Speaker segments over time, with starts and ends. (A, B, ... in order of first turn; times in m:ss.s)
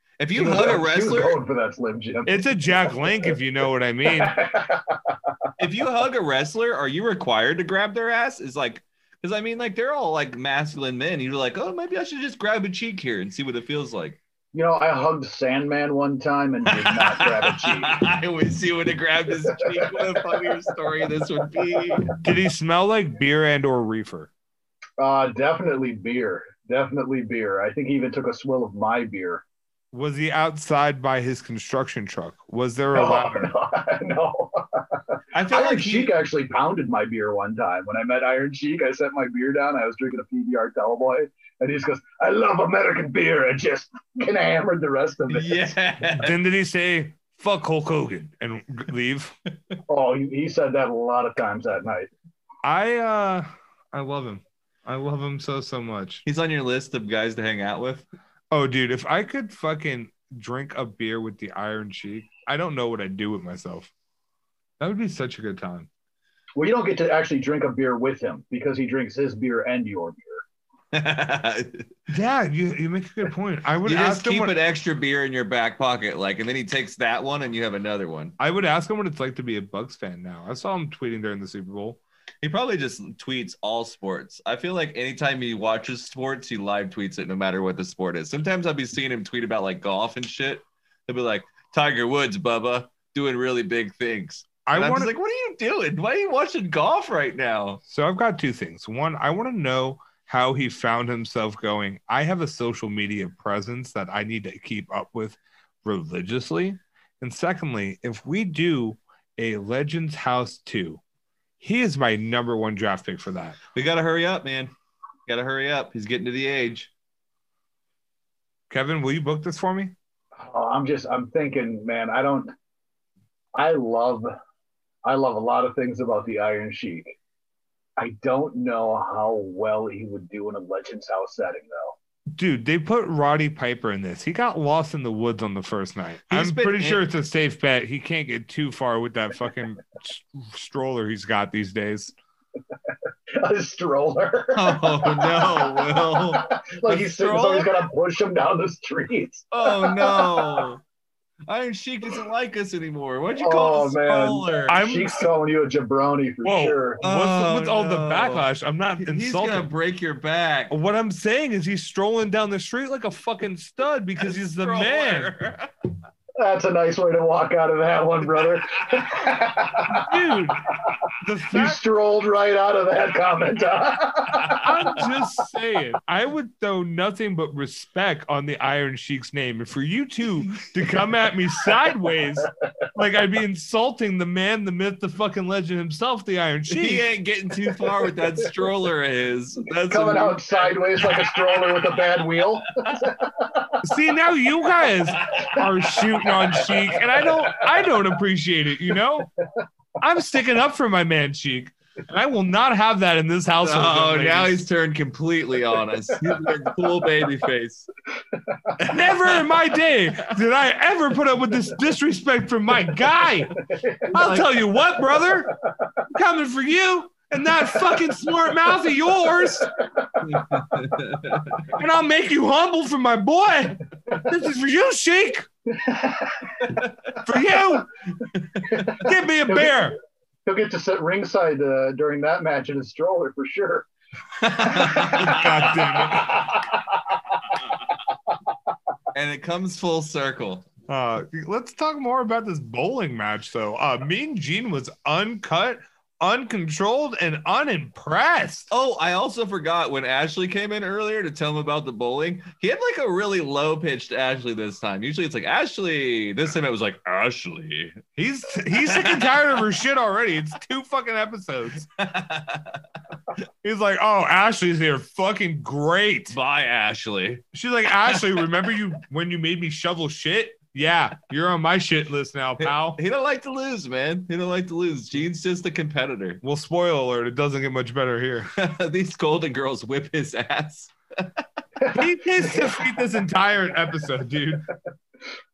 0:00.2-0:01.4 A
0:00.3-0:03.4 B
0:02.2-0:04.3 C
0:04.0-0:05.2 B
0:05.6-0:14.2 A
0:14.5-0:18.0 B
0:16.7-0:22.1 A
0:19.6-0:20.2 B
0:22.2-0:24.3 C
0:25.0-0:29.4 B
0:29.9-0:33.5 C
0:33.0-0:34.8 B
0:35.3-0:36.1 A
0:35.5-0:45.8 B
0:45.3-0:46.3 A
0:46.2-0:49.4 C
0:49.9-0:52.1 B
0:52.6-0:56.2 C
0:56.2-0:58.0 A
0:58.5-1:03.9 C
1:04.8-1:05.9 C
1:06.6-1:10.4 B
1:10.9-1:11.9 A
1:12.1-1:14.5 C
1:13.8-1:18.4 A
1:18.4-1:22.0 C
1:22.4-1:37.8 A
1:34.6-1:35.1 C
1:37.9-1:51.0 C
1:51.6-1:53.6 C
1:53.8-1:54.7 A
1:55.3-1:56.9 A
1:58.7-1:59.9 C
2:00.4-2:02.5 B
2:03.6-2:04.3 B
2:05.0-2:07.2 B
2:08.0-2:12.0 B
2:12.4-2:22.1 C
2:16.3-2:17.0 A
2:23.3-2:30.7 B
2:24.5-2:27.7 A
2:29.5-2:30.8 A
2:31.5-2:34.8 A
2:33.4-2:37.0 B
2:34.7-2:35.3 C
2:36.4-2:39.7 C
2:37.0-2:38.5 A
2:39.0-2:40.8 A
2:40.7-2:45.3 C
2:44.2-2:45.7 A
2:46.4-2:50.1 B
2:49.9-2:51.8 C
2:51.5-2:55.1 B
2:54.3-2:54.7 A
2:54.6-3:07.1 C
3:06.7-3:12.0 A
3:09.9-3:13.8 B
3:12.8-3:13.1 A
3:13.8-3:19.3 C
3:15.1-3:15.6 A
3:15.5-3:17.9 B
3:20.0-3:24.6 C
3:23.6-3:27.9 A
3:26.2-3:26.6 B
3:28.8-3:29.5 A
3:28.9-3:33.6 C
3:33.7-3:34.1 B
3:34.1-3:35.6 C
3:34.1-3:34.5 A
3:36.1-3:39.7 C
3:39.4-3:40.8 B
3:40.2-3:41.7 A
3:41.7-3:45.5 C
3:45.7-3:46.8 B
3:47.2-3:47.9 C
3:48.3-3:49.0 A
3:48.7-3:49.9 B
3:49.0-3:50.0 C
3:50.5-3:53.9 B
3:54.4-3:55.7 A
3:54.7-3:57.2 B
3:54.8-3:56.6 C
3:59.1-4:00.7 A
4:00.9-4:08.7 C
4:08.7-4:18.0 A
4:18.2-4:21.9 C
4:18.7-4:19.5 A
4:22.0-4:22.8 A
4:23.6-4:26.4 C
4:26.3-4:27.4 A
4:27.5-4:33.0 C
4:32.6-4:36.4 A
4:36.4-4:38.5 C
4:38.6-4:41.4 A
4:41.8-4:43.0 B
4:41.9-4:44.7 C